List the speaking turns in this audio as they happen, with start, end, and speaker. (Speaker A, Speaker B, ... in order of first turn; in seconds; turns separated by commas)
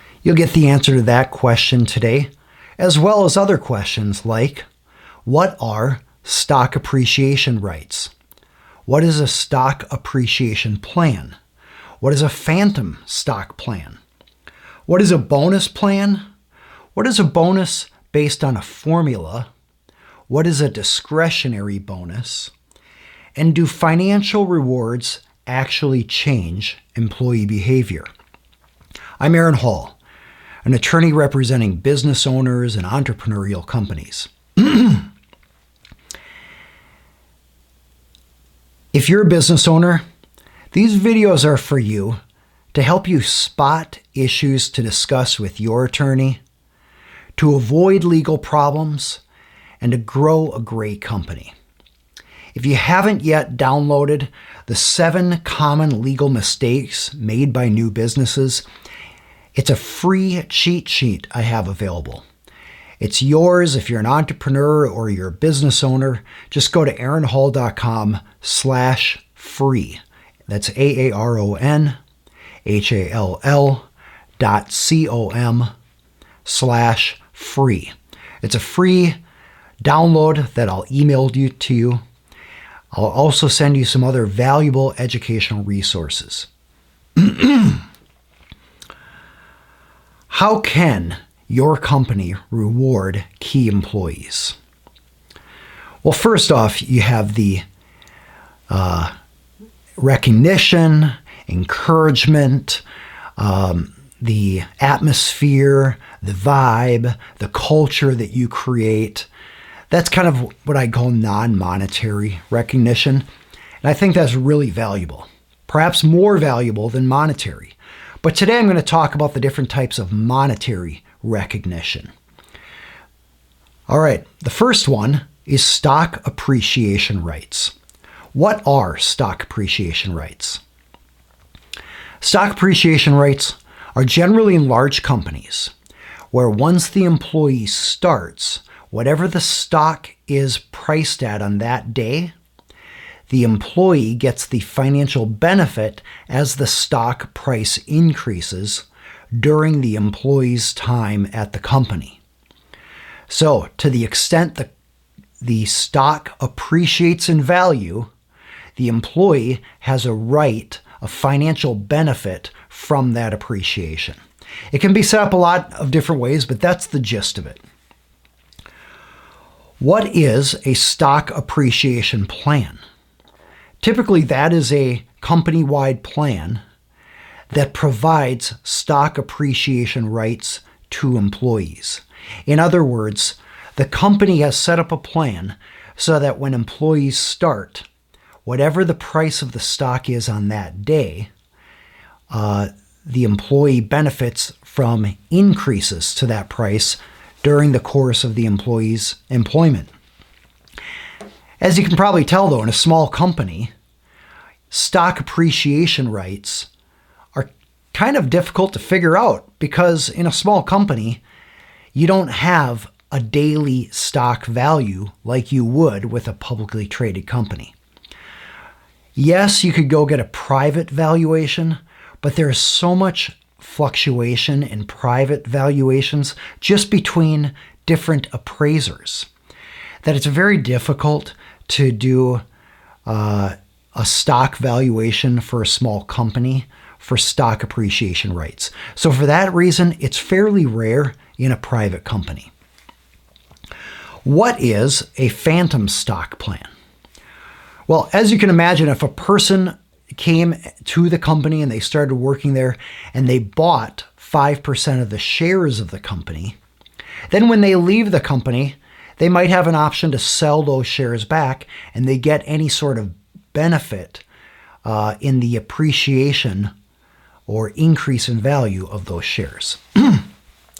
Speaker A: 0.2-4.7, Speaker A: 5.2-8.1, Speaker A: 8.9-11.3, Speaker A: 12.0-14.0, Speaker A: 14.9-16.2, Speaker A: 16.9-19.5, Speaker A: 20.3-22.5, Speaker A: 23.4-28.1, Speaker A: 29.2-30.0, Speaker A: 30.6-35.1, Speaker A: 38.9-40.0, Speaker A: 40.7-42.2, Speaker A: 42.7-46.4, Speaker A: 47.4-49.2, Speaker A: 49.8-51.5, Speaker A: 52.5-58.6, Speaker A: 59.5-62.2, Speaker A: 63.0-72.0, Speaker A: 72.6-73.9, Speaker A: 74.4-75.7, Speaker A: 76.5-79.2, Speaker A: 79.8-82.0, Speaker A: 82.9-86.5, Speaker A: 87.2-87.8, Speaker A: 90.3-94.5, Speaker A: 96.0-97.6, Speaker A: 98.7-99.1, Speaker A: 100.0-102.8, Speaker A: 103.4-109.3, Speaker A: 109.9-113.2, Speaker A: 113.8-122.1, Speaker A: 123.9-127.7, Speaker A: 128.3-130.6, Speaker A: 132.2-135.7, Speaker A: 136.3-142.3, Speaker A: 143.3-152.2, Speaker A: 153.3-154.7, Speaker A: 155.4-158.1, Speaker A: 158.8-164.2, Speaker A: 164.7-167.6, Speaker A: 169.8-172.8, Speaker A: 173.8-176.6, Speaker A: 177.5-187.8, Speaker A: 188.4-191.3, Speaker A: 192.3-199.9, Speaker A: 201.6-203.7, Speaker A: 204.7-206.7, Speaker A: 207.3-211.2, Speaker A: 211.9-217.7, Speaker A: 219.2-229.3, Speaker A: 230.0-232.4, Speaker A: 233.1-242.5, Speaker A: 244.2-246.7, Speaker A: 247.9-256.6, Speaker A: 257.3-264.2, Speaker A: 264.8-266.7, Speaker A: 267.5-270.3